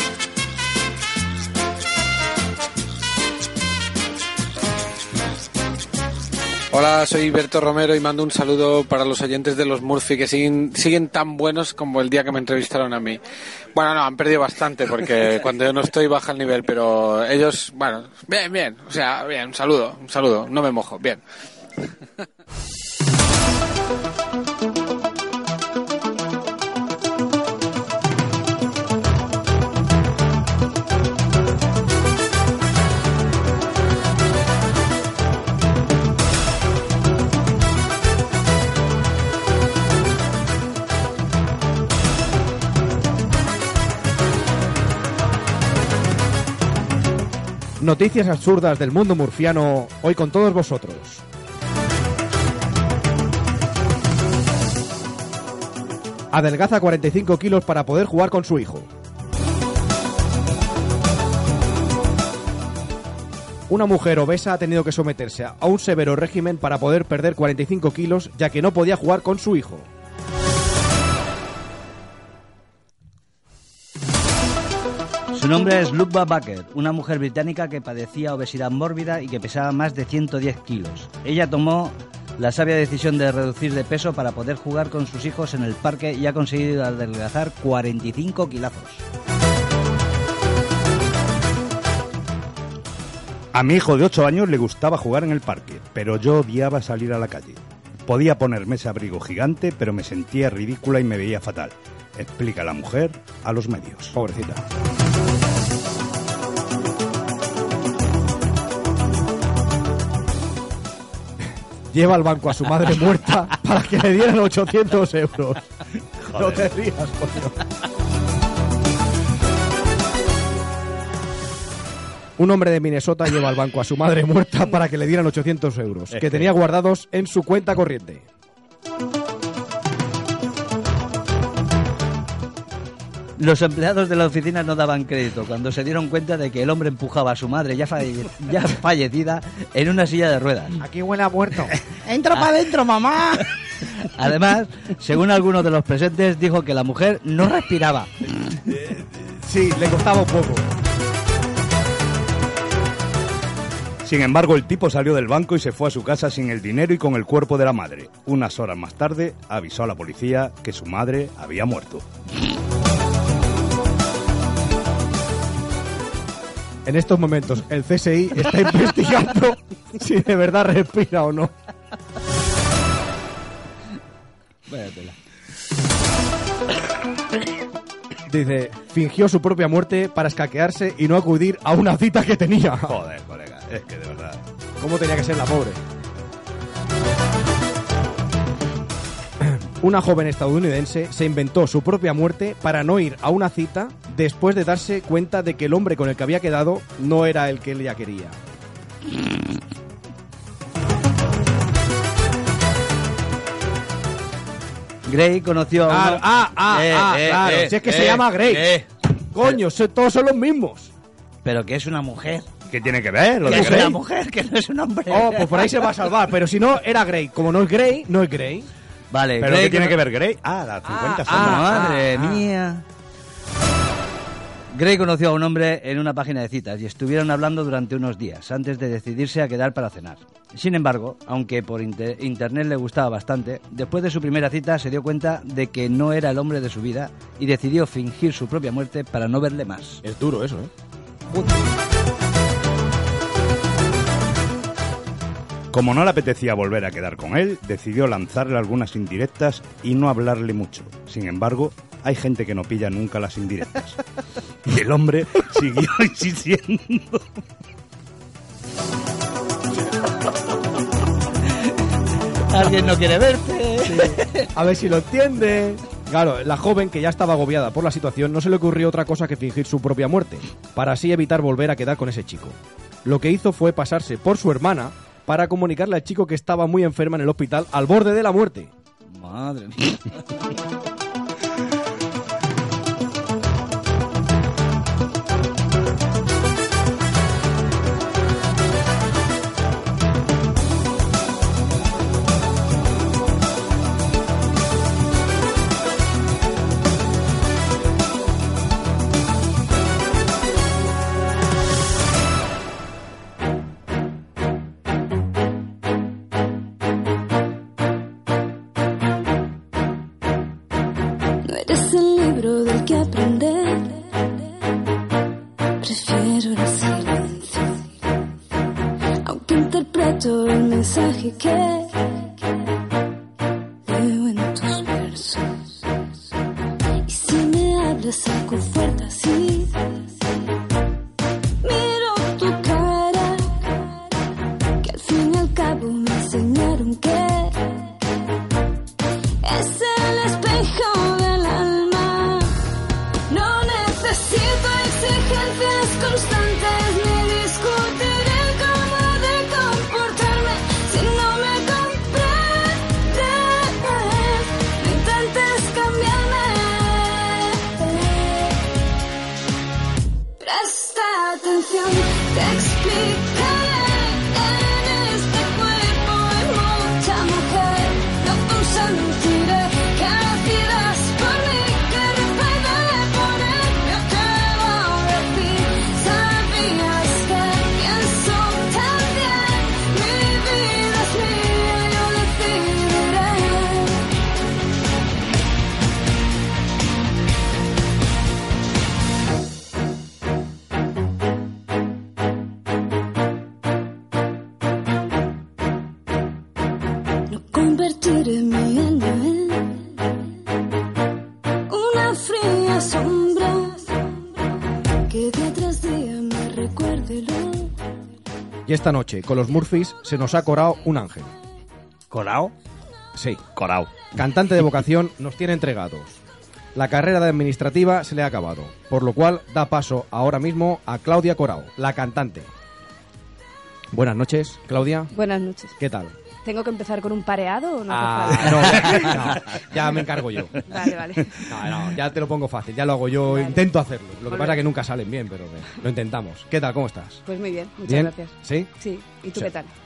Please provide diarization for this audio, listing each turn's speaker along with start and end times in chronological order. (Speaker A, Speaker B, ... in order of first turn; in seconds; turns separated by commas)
Speaker A: 6.7-13.2, Speaker A: 13.7-21.2, Speaker B: 47.8-51.2, Speaker B: 56.3-58.9, Speaker B: 63.7-69.9, Speaker C: 75.3-89.0, Speaker D: 93.5-104.2, Speaker B: 104.1-104.6, Speaker B: 111.9-115.6, Speaker D: 116.2-116.7, Speaker B: 116.3-117.6, Speaker B: 122.4-128.2, Speaker D: 126.1-126.5, Speaker C: 133.4-140.8, Speaker B: 140.8-141.7, Speaker D: 142.0-143.4, Speaker C: 144.0-148.1, Speaker B: 149.4-150.7, Speaker D: 154.0-162.1, Speaker B: 166.8-171.5, Speaker C: 174.7-175.2, Speaker B: 178.3-183.0, Speaker D: 182.8-184.4, Speaker B: 184.8-185.8, Speaker B: 189.4-198.4, Speaker C: 205.0-208.9, Speaker B: 205.9-208.7, Speaker B: 209.3-210.9, Speaker C: 211.4-212.5, Speaker D: 212.7-213.9, Speaker C: 213.4-215.7, Speaker B: 213.4-213.9, Speaker B: 215.1-218.7, Speaker C: 219.1-220.0, Speaker D: 219.4-222.0, Speaker B: 220.8-222.4, Speaker C: 221.3-222.8, Speaker C: 224.7-240.0, Speaker B: 240.0-240.7, Speaker D: 245.7-254.0, Speaker D: 254.6-257.2, Speaker C: 262.5-264.5, Speaker B: 263.9-278.7, Speaker C: 279.1-280.2, Speaker E: 311.4-314.4, Speaker E: 315.8-317.9, Speaker E: 319.2-322.4, Speaker E: 323.9-325.9, Speaker E: 327.0-330.2, Speaker E: 331.6-334.1, Speaker E: 334.8-338.0, Speaker E: 339.4-342.6, Speaker E: 343.3-358.6, Speaker E: 360.4-384.1, Speaker E: 397.3-399.9, Speaker E: 401.7-404.5, Speaker E: 405.1-407.7, Speaker B: 408.6-411.3, Speaker C: 412.1-412.5, Speaker B: 413.1-413.4, Speaker D: 413.6-414.1, Speaker B: 414.1-416.2, Speaker B: 416.7-422.5, Speaker B: 423.9-425.1, Speaker F: 425.1-425.7, Speaker B: 425.8-426.1, Speaker F: 426.4-429.1, Speaker B: 427.9-430.6, Speaker F: 430.7-431.4, Speaker B: 431.4-437.2, Speaker F: 433.3-433.6, Speaker F: 434.3-434.6, Speaker F: 437.2-439.7, Speaker B: 437.9-438.7